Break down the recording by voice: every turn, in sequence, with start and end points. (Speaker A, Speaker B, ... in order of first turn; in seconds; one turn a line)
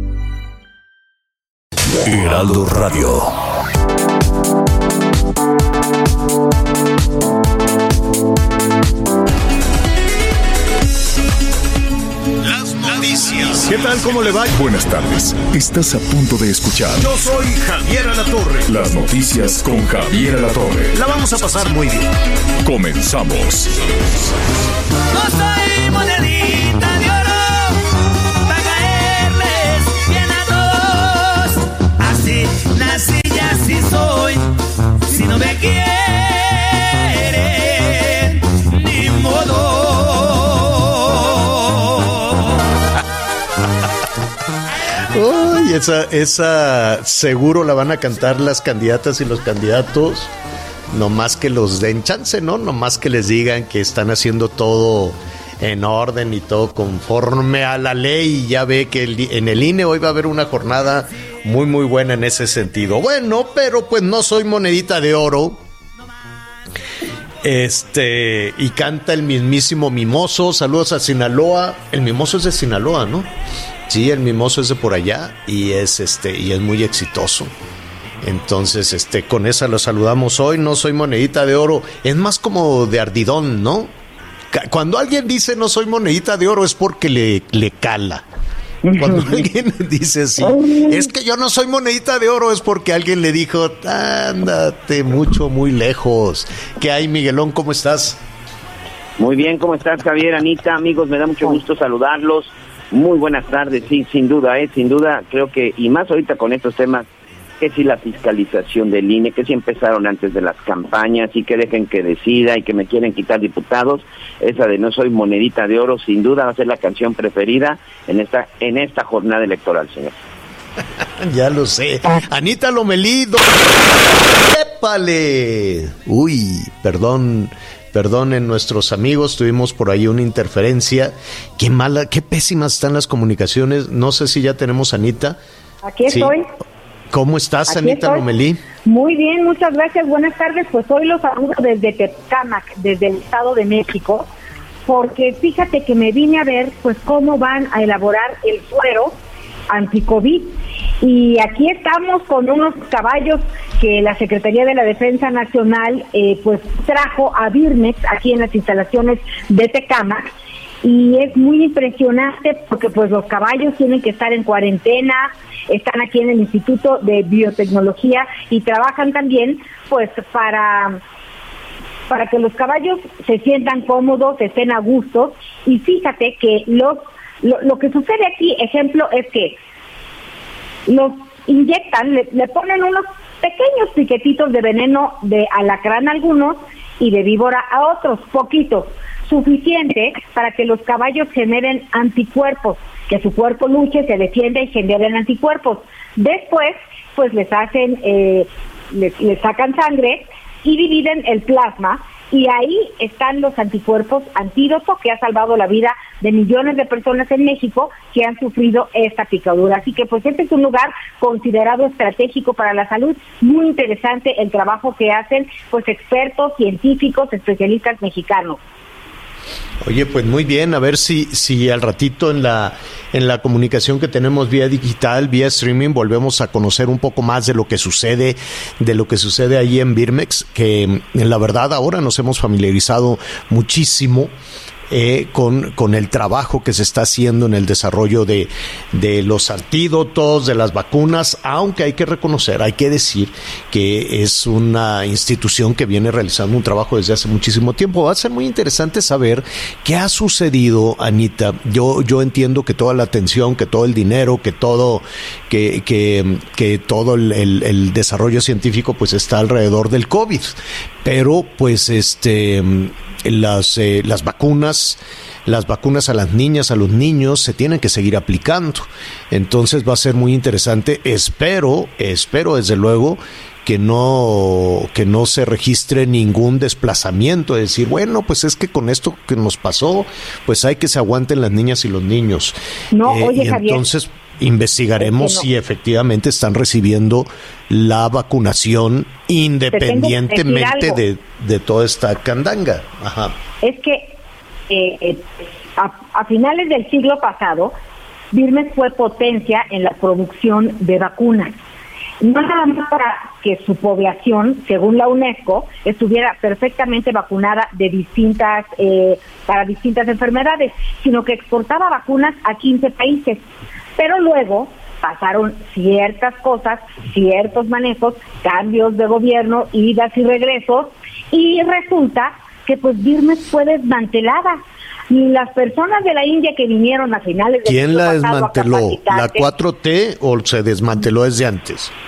Speaker A: 2.0-3.3
Speaker A: 12.4-14.6
Speaker B: 14.3-17.1
Speaker A: 17.0-18.8
Speaker B: 18.7-21.0
Speaker A: 20.9-22.1
Speaker B: 22.6-23.7
Speaker C: 25.1-34.5
Speaker C: 35.1-42.5
Speaker A: 45.0-50.3
Speaker A: 50.9-65.6
Speaker A: 67.4-73.3
Speaker A: 73.9-77.5
Speaker A: 78.2-83.9
Speaker A: 84.5-88.2
Speaker D: 88.8-89.4
Speaker A: 89.0-98.2
Speaker D: 90.5-91.0
Speaker E: 99.2-107.1
Speaker E: 107.6-120.1
Speaker A: 121.0-135.4
Speaker D: 135.8-136.5
Speaker A: 136.1-136.4
Speaker A: 137.1-138.6
Speaker D: 137.7-138.2
Speaker D: 138.8-144.3
Speaker D: 144.9-149.2
Speaker D: 149.7-160.3
Speaker D: 160.8-171.0
Speaker D: 172.1-179.6
Speaker D: 180.9-218.6
Speaker A: 219.8-234.3
Speaker A: 234.9-293.4
Speaker D: 282.9-283.8
Speaker D: 285.0-285.5
Speaker D: 289.7-291.0
Speaker D: 293.6-294.2
Speaker D: 294.7-297.7
Speaker D: 298.3-301.5
Speaker D: 302.2-313.4
Speaker D: 314.0-329.5
Speaker A: 327.6-331.9